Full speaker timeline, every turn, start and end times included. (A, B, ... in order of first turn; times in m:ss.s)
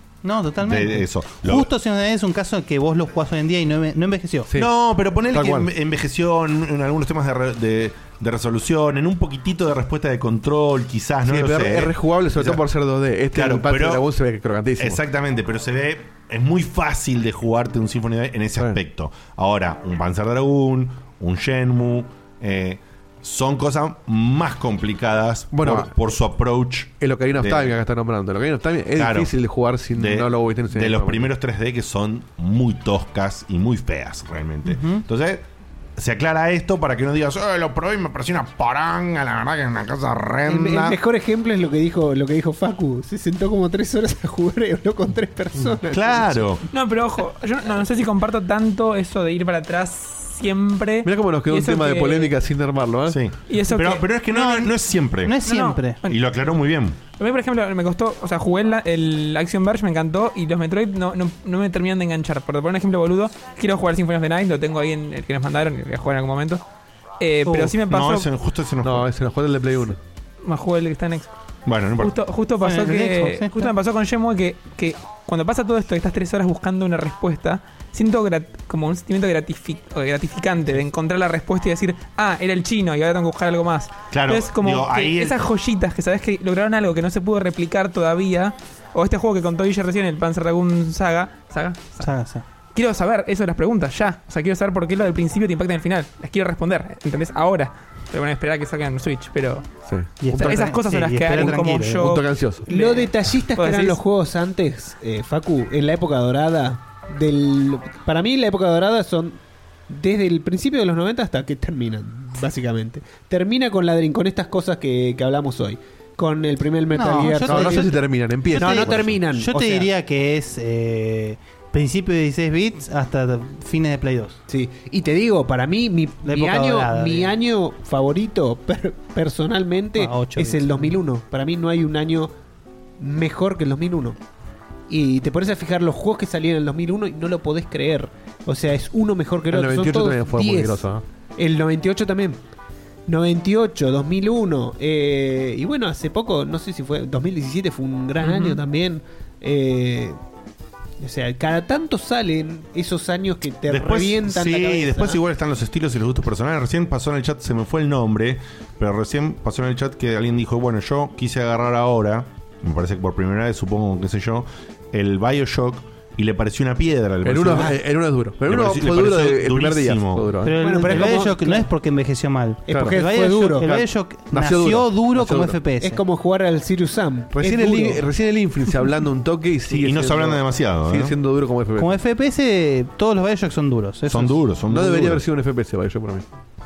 0:00.2-0:04.5 A
0:00.6-0:01.7 B
0:04.6-0:12.6 B
0:05.3-0:05.7 C
0:11.3-0:15.0 C
0:13.3-0:14.0 B
0:14.8-0:27.8 B
0:25.5-0:25.9 C
0:27.0-0:31.3 C
0:29.0-0:29.3 B
0:30.0-0:35.4 B
0:34.7-0:35.0 A
0:36.0-0:41.0 B
0:40.5-0:46.4 D
0:45.9-0:46.6 B
0:46.7-0:52.3 E
0:51.0-0:53.2 C
0:53.1-0:55.4 B
0:53.5-0:54.0 E
0:54.3-0:56.0 A
0:55.4-0:55.8 E
0:56.0-0:57.0 B
0:57.2-1:06.6 E
1:07.2-1:08.2 E
1:07.8-1:09.1 B
1:08.8-1:10.0 C
1:10.4-1:11.3 E
1:11.7-1:12.2 B
1:12.0-1:32.1 E
1:12.6-1:13.7 A
1:24.1-1:25.4 B
1:32.0-1:32.4 A
1:32.7-1:39.7 E
1:39.9-1:40.1 C
1:40.2-1:42.1 A
1:40.3-1:44.0 E
1:42.0-1:42.6 C
1:42.7-1:57.9 D
1:56.9-1:58.0 A
1:57.4-1:59.2 C
1:58.5-1:59.9 D
1:58.5-2:04.4 A
2:04.5-2:12.3 D
2:06.2-2:07.3 A
2:10.0-2:11.0 A
2:13.0-2:14.2 D
2:14.9-2:20.9 D
2:19.5-2:21.0 C
2:21.4-2:22.4 D
2:23.1-2:30.2 D
2:28.2-2:28.6 E
2:31.0-2:35.2 D
2:33.7-2:47.8 B
2:47.2-2:51.2 C
2:48.5-2:50.3 B
2:50.4-2:56.0 A
2:50.6-2:51.7 D
2:52.7-2:53.7 D
2:52.7-2:53.0 C
2:53.7-2:55.6 C
2:55.8-2:58.0 D
2:57.3-3:01.9 C
2:59.8-3:01.1 B
3:01.8-3:04.4 A
3:04.1-3:05.2 B
3:04.7-3:06.2 C